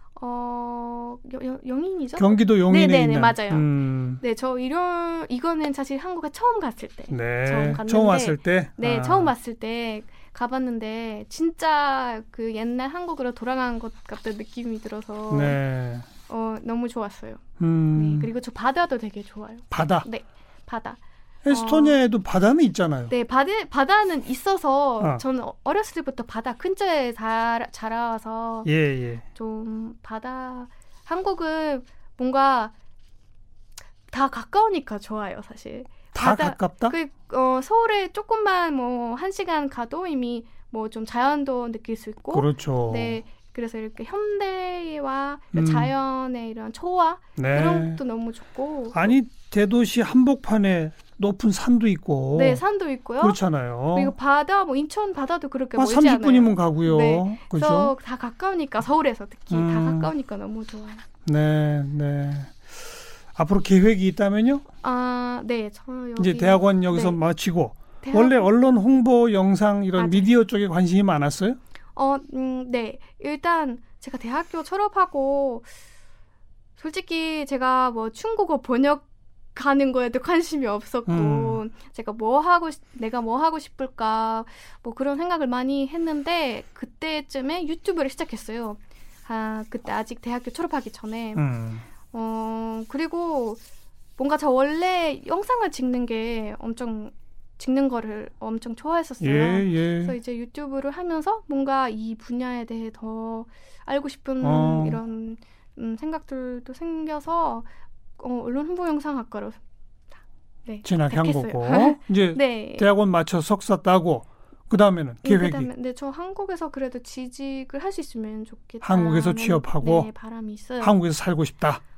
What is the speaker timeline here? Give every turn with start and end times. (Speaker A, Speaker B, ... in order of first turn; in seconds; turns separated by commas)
Speaker A: 0.1-3.7, Speaker B: 2.2-4.2, Speaker A: 4.2-15.6, Speaker B: 7.1-9.3, Speaker B: 15.3-16.1, Speaker A: 16.3-17.4, Speaker B: 17.6-18.3, Speaker A: 17.9-22.0, Speaker B: 19.7-20.1, Speaker B: 21.4-23.1, Speaker A: 23.1-28.7, Speaker B: 28.6-29.2, Speaker A: 29.3-32.7, Speaker A: 34.1-49.1, Speaker B: 36.1-36.9, Speaker B: 42.3-43.2, Speaker B: 45.5-45.9, Speaker B: 47.4-48.0, Speaker B: 48.9-52.6, Speaker A: 52.3-53.4, Speaker B: 53.2-54.1, Speaker A: 53.9-61.0, Speaker B: 55.8-57.9, Speaker B: 59.5-60.1, Speaker B: 61.2-64.7, Speaker A: 64.8-67.2, Speaker B: 66.2-71.6, Speaker A: 68.0-68.5, Speaker A: 70.0-70.3, Speaker A: 71.9-75.7, Speaker A: 76.8-91.4, Speaker B: 81.1-81.6, Speaker B: 91.3-91.8, Speaker A: 92.1-93.6, Speaker A: 94.2-107.7, Speaker B: 99.2-100.2, Speaker B: 104.4-105.0, Speaker A: 108.2-109.6, Speaker A: 110.7-112.9, Speaker B: 110.8-115.7, Speaker A: 115.2-121.0, Speaker B: 118.8-120.1, Speaker B: 120.8-121.8